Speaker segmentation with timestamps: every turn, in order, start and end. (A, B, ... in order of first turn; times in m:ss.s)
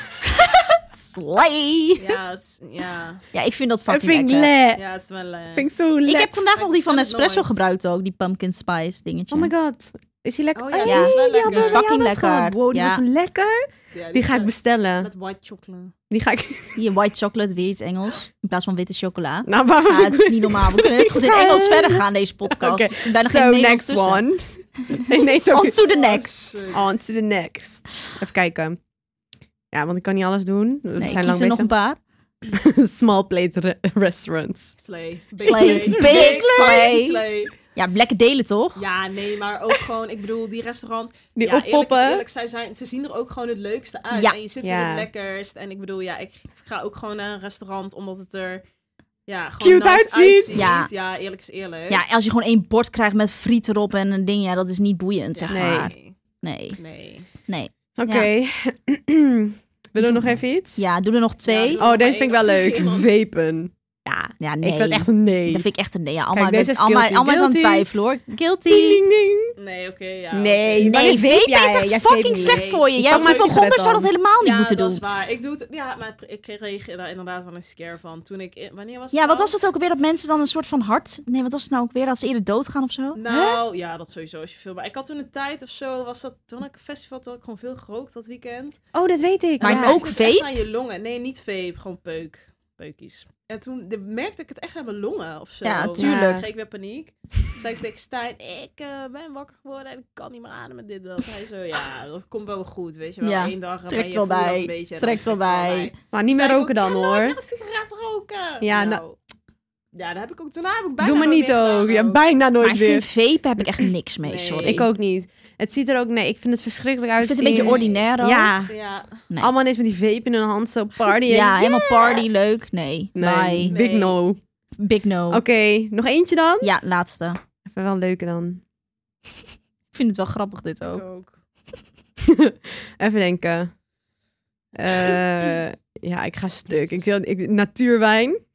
0:00.4-0:02.2 A
0:02.0-0:03.2 B
0:03.3-0:04.5 A
0:03.9-0:04.8 C
0:04.8-0:05.7 B
0:05.5-0:06.3 C
0:06.0-0:09.5 A
0:06.5-0:07.6 B
0:09.3-0:15.1 C
0:10.5-0:11.8 B
0:10.8-0:13.0 A
0:13.9-0:15.9 B
0:16.1-0:16.8 C
0:16.8-0:24.2 A
0:19.5-0:25.8 C
0:25.2-0:26.3 A
0:25.8-0:26.9 B
0:26.7-0:28.8 C
0:29.7-0:31.7 C
0:31.0-0:32.0 A
0:32.5-0:34.7 C
0:34.8-0:37.5 B
0:35.4-0:37.2 A
0:35.4-0:36.9 C
0:37.7-0:38.8 A
0:38.8-0:48.6 B
0:41.4-0:42.2 C
0:44.6-0:45.1 C
0:49.3-0:52.0 B
0:49.6-0:50.7 C
0:50.5-0:50.9 A
0:51.9-0:56.8 A
0:55.3-0:56.2 B
0:55.5-0:55.9 C
0:56.8-0:57.3 B
0:57.5-0:58.3 A
0:58.0-1:00.8 C
1:00.0-1:01.8 A
1:01.5-1:03.1 B
1:01.7-1:05.7 C
1:04.4-1:09.0 A
1:06.3-1:07.9 C
1:08.6-1:09.5 C
1:09.6-1:11.2 B
1:10.3-1:14.1 C
1:10.8-1:15.0 A
1:12.4-1:13.6 B
1:14.4-1:19.5 B
1:19.1-1:23.2 A
1:23.1-1:28.8 B
1:23.3-1:23.6 C
1:28.9-1:30.0 C
1:29.6-1:49.2 B
1:29.6-1:30.5 A
1:35.6-1:36.5 A
1:36.0-1:36.4 C
1:43.2-1:45.9 A
1:46.1-1:47.4 C
1:48.6-1:49.0 C
1:49.9-1:52.2 B
1:51.0-1:53.1 C
1:52.6-1:54.9 A
1:54.2-1:54.9 B
1:54.6-1:58.7 C
1:57.2-1:58.6 A
1:57.4-1:58.1 B
1:58.6-1:59.2 B
1:59.4-2:02.1 C
2:01.3-2:03.7 A
2:02.0-2:02.2 B
2:03.2-2:04.4 C
2:03.6-2:04.2 B
2:04.8-2:05.4 A
2:05.3-2:06.7 C
2:06.6-2:07.4 A
2:07.7-2:08.6 C
2:09.9-2:11.0 A
2:10.8-2:11.4 B
2:12.2-2:13.7 C
2:14.7-2:18.4 C
2:16.7-2:17.0 B